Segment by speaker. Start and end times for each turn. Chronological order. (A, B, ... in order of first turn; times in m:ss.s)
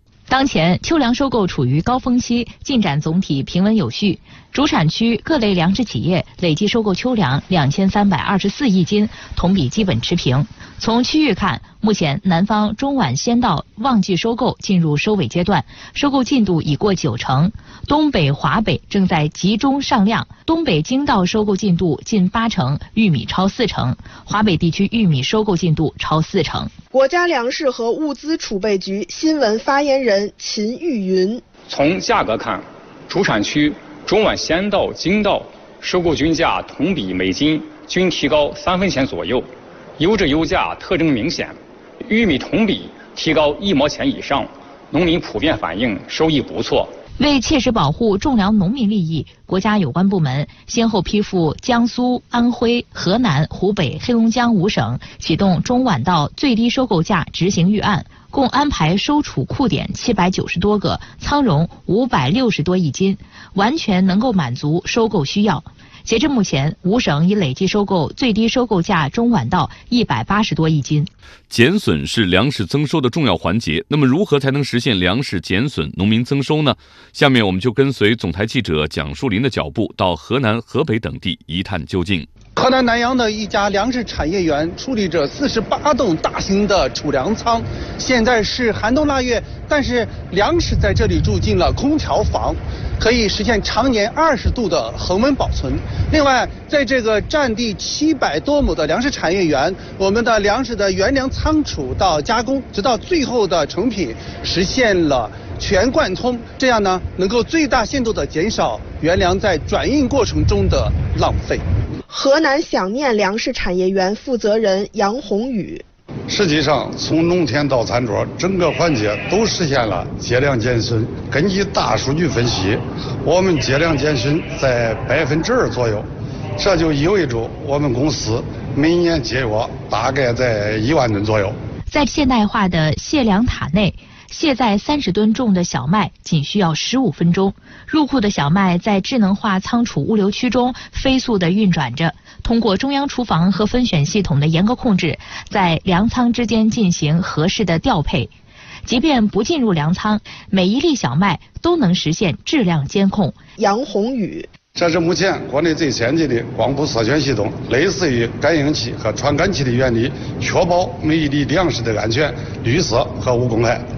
0:00.3-0:26.7 A
0:26.9-0:31.4 B
0:31.7-0:46.9 C
0:47.2-1:11.1 A
1:11.5-1:22.3 D
1:22.6-1:51.6 E
1:52.1-1:55.8 B
1:56.3-2:06.1 F
2:06.6-2:11.6 F
2:11.9-2:28.3 A
2:28.8-2:33.4 A
2:33.6-2:34.5 B
2:34.8-2:43.8 F